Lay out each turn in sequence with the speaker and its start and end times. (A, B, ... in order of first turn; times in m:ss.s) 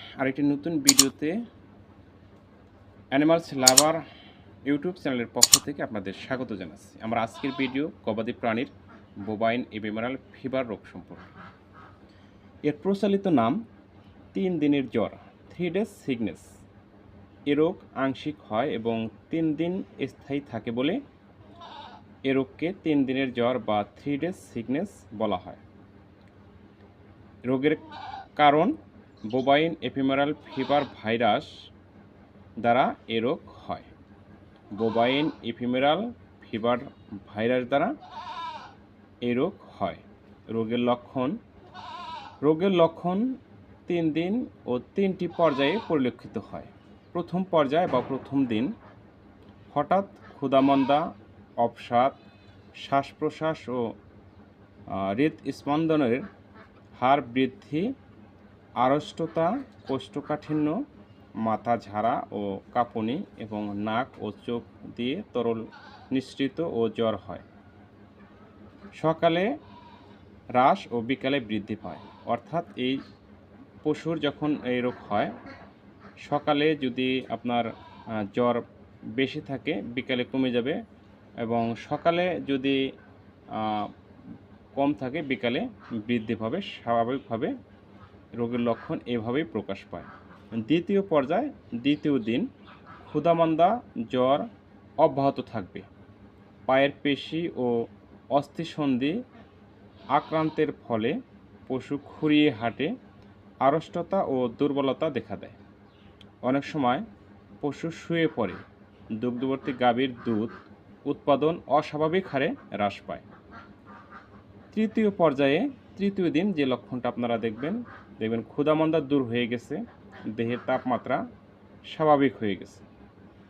0:00.2-0:01.3 A
0:03.1-0:04.0 A
0:04.6-0:08.7 A
0:09.2-0:11.3 A
0:12.6-0:13.6 A
0:14.3-0:16.6 A
0:17.5-0:21.0 A
0:22.2-0:25.6 A
0:27.4-0:27.8 A
0:28.4-0:28.8 A
0:29.3-0:31.5 A
0:32.6-0:33.9 A
0:34.7-0:37.9 A
0:39.2-0:41.4 A
0:42.4-0:43.3 A
0:43.8-0:48.7 A
0:49.7-0:51.0 A
0:51.6-0:52.2 A
0:52.8-0:53.9 A
0:54.9-0:56.2 A
0:56.9-0:57.9 A
0:58.8-1:00.8 A
1:01.4-1:07.4 A
1:09.0-1:09.5 A
1:10.6-1:13.0 A
1:13.8-1:15.3 A
1:16.2-1:17.7 A
1:18.2-1:18.6 A
1:19.2-1:20.8 A
1:21.4-1:22.9 A
1:23.5-1:23.9 A
1:24.7-1:27.5 A
1:28.4-1:32.5 A
1:33.0-1:34.5 A
1:35.0-1:35.9 A
1:36.7-1:39.2 A
1:40.1-1:42.9 A
1:43.6-1:45.6 A
1:46.4-1:47.0 A
1:47.6-1:48.6 A
1:49.2-1:53.2 A
1:54.7-2:01.2 A
2:01.9-2:02.8 A